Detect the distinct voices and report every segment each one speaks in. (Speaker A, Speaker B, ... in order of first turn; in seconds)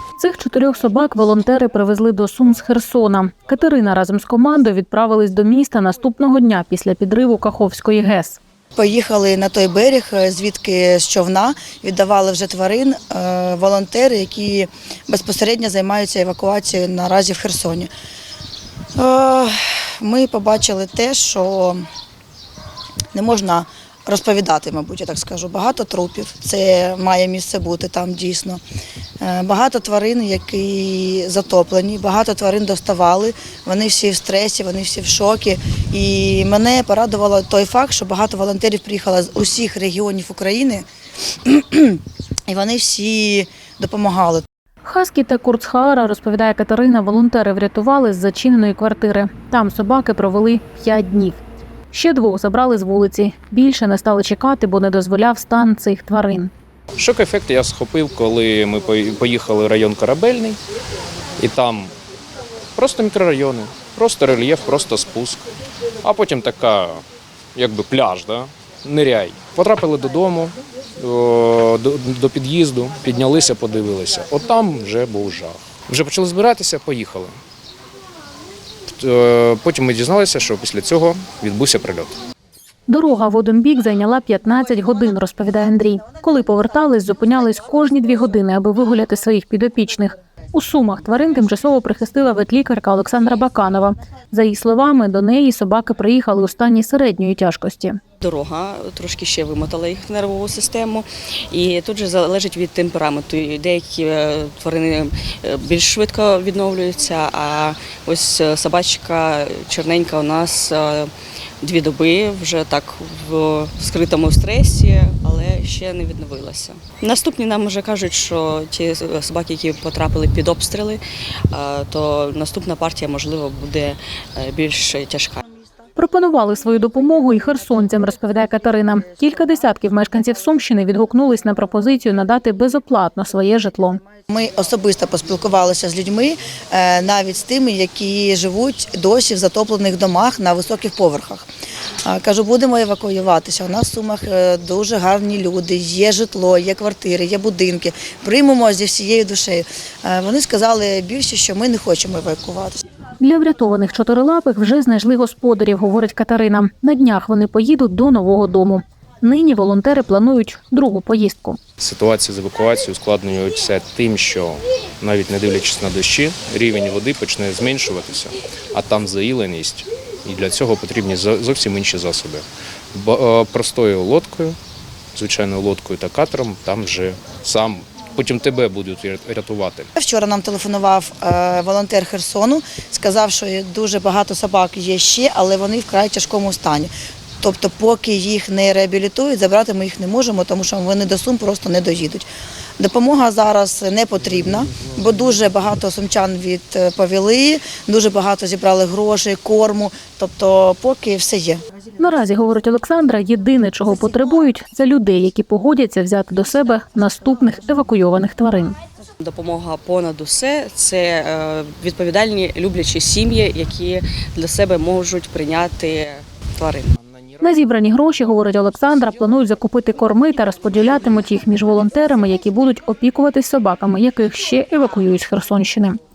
Speaker A: 0.2-8.4, 44.8-51.4, 51.9-56.5, 82.9-98.0, 126.0-134.0, 153.2-161.6, 202.0-208.8, 217.4-226.0
Speaker B: 8.8-17.9, 19.0-21.8, 23.1-28.6, 29.2-40.9, 41.5-44.5, 134.3-141.5, 142.1-152.8, 180.0-192.3, 192.8-201.6
Speaker C: 57.0-60.6, 61.4-61.9, 62.8-65.5, 66.0-67.0, 67.5-77.3, 79.0-82.2, 161.8-174.6, 175.2-179.9
Speaker D: 98.2-111.1, 111.6-125.4, 209.2-216.9